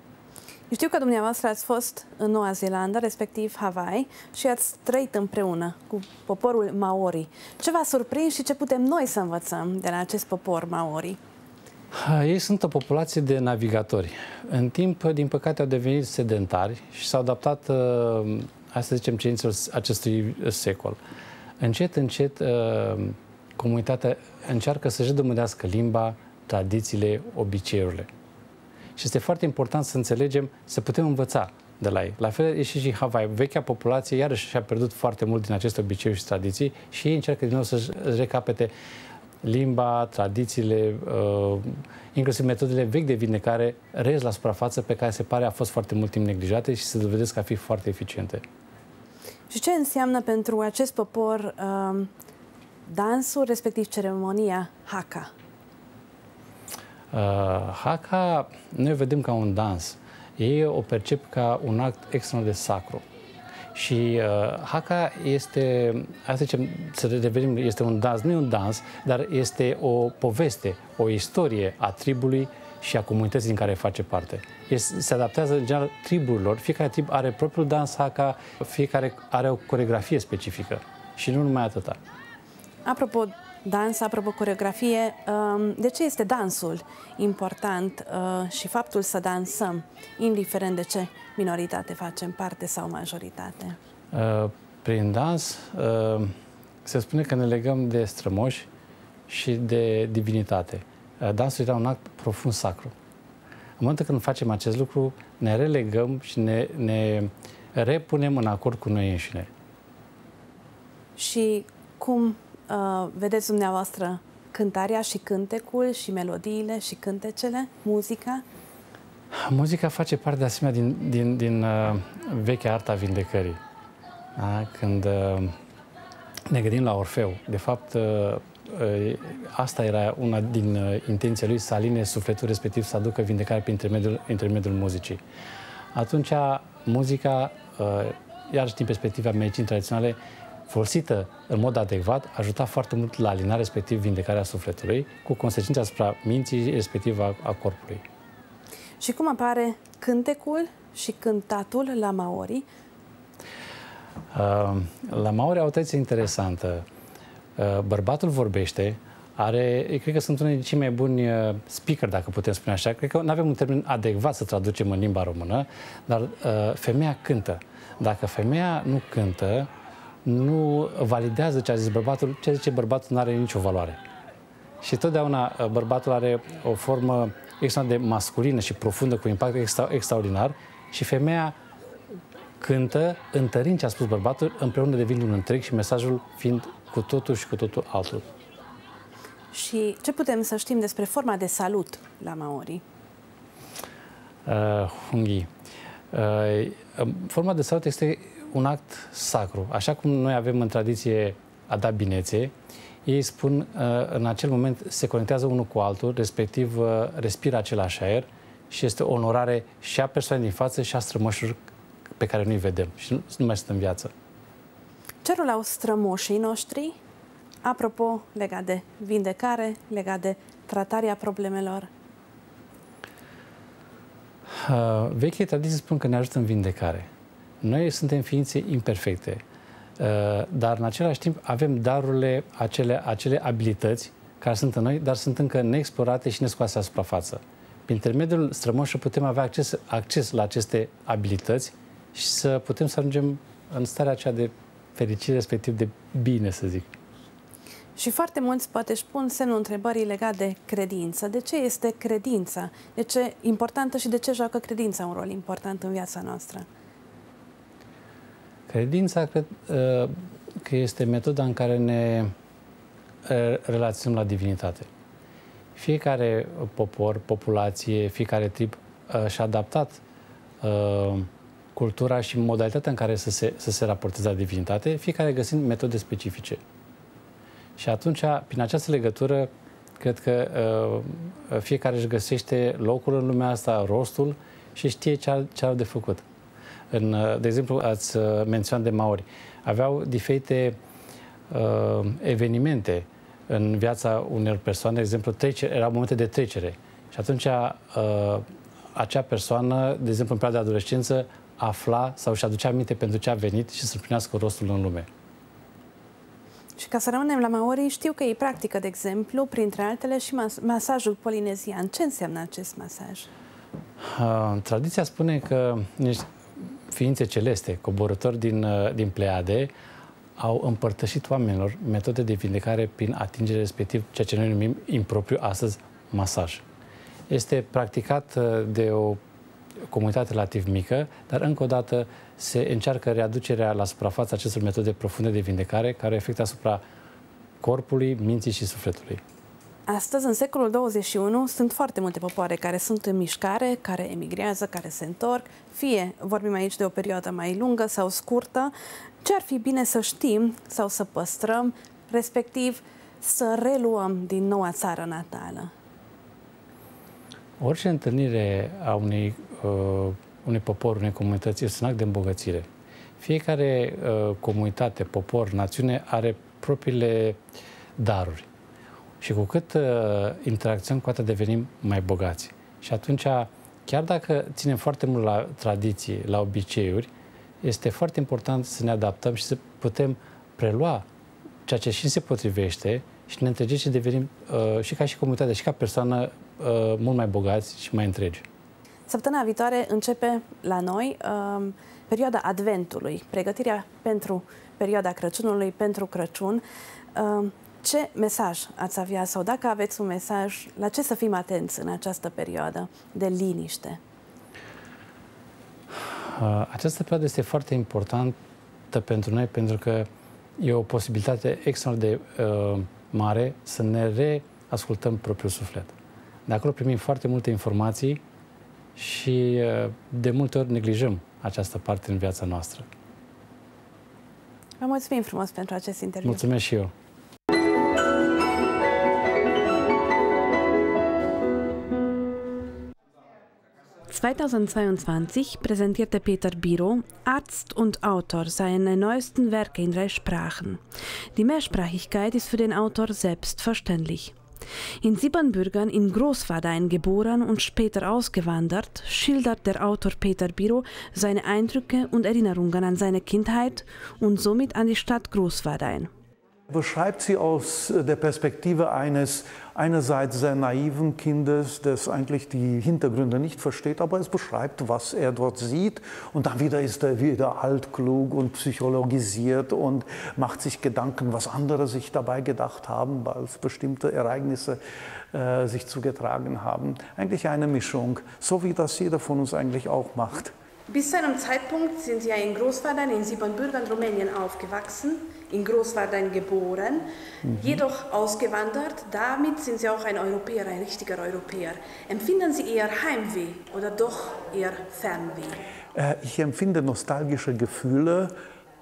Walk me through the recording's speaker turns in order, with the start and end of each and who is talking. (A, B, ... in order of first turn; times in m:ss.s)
0:00.7-0:11.2 A
0:11.9-0:21.0 B
0:21.6-0:28.1 B
0:29.0-0:38.7 B
0:39.4-0:48.4 B
0:49.5-0:52.1 A
0:52.9-0:55.3 A
0:57.1-1:03.0 B
1:03.8-1:22.0 B
1:22.8-1:33.8 A
1:34.1-1:38.7 B
1:39.3-1:42.9 B
1:43.8-1:49.5 B
1:51.2-1:58.4 A
1:59.3-2:03.6 B
2:04.4-2:05.6 B
2:06.5-2:15.2 B
2:15.9-2:28.0 B
2:29.0-2:32.7 A
2:34.3-2:36.8 B
2:37.6-2:49.7 B
2:50.2-2:54.0 B
2:54.8-3:01.6 B
3:02.6-3:08.3 B
3:09.5-3:12.8 A
3:14.5-3:15.5 B
3:16.1-3:22.5 B
3:23.1-3:31.6 B
3:32.2-3:34.1 B
3:35.2-3:37.0 A
3:37.6-3:41.9 A
3:44.6-3:47.1 B
3:47.6-3:49.4 B
3:50.0-4:06.9 B
4:08.0-4:16.7 A
4:18.7-4:22.3 B
4:23.3-4:24.9 B
4:25.8-4:30.0 B
4:30.6-4:36.6 B
4:37.8-4:46.2 B
4:46.9-4:50.8 B
4:51.5-5:05.1 B
5:06.8-5:13.3 A
5:14.0-5:16.3 B
5:16.9-5:19.7 B
5:20.4-5:26.6 B
5:27.3-5:29.2 B
5:29.9-5:36.8 B
5:37.6-5:39.2 B
5:39.9-5:55.7 A
5:57.6-6:02.7 B
6:03.2-6:07.4 B
6:08.0-6:08.5 B
6:09.2-6:17.1 B
6:17.6-6:21.0 B
6:21.7-6:28.4 B
6:29.1-6:36.6 A
6:37.2-6:44.0 A
6:46.2-6:48.4 B
6:48.9-6:50.1 B
6:50.6-6:55.9 B
6:56.5-6:58.2 B
6:59.0-7:02.9 B
7:04.8-7:06.4 A
7:06.2-7:06.9 B
7:14.1-7:20.8 A
7:21.4-7:24.4 A
7:25.0-7:36.1 A
7:36.7-7:54.8 C
7:55.3-8:00.5 C
8:00.9-8:07.1 A
8:07.5-8:07.8 C
8:07.6-8:15.6 A
8:16.0-8:18.3 C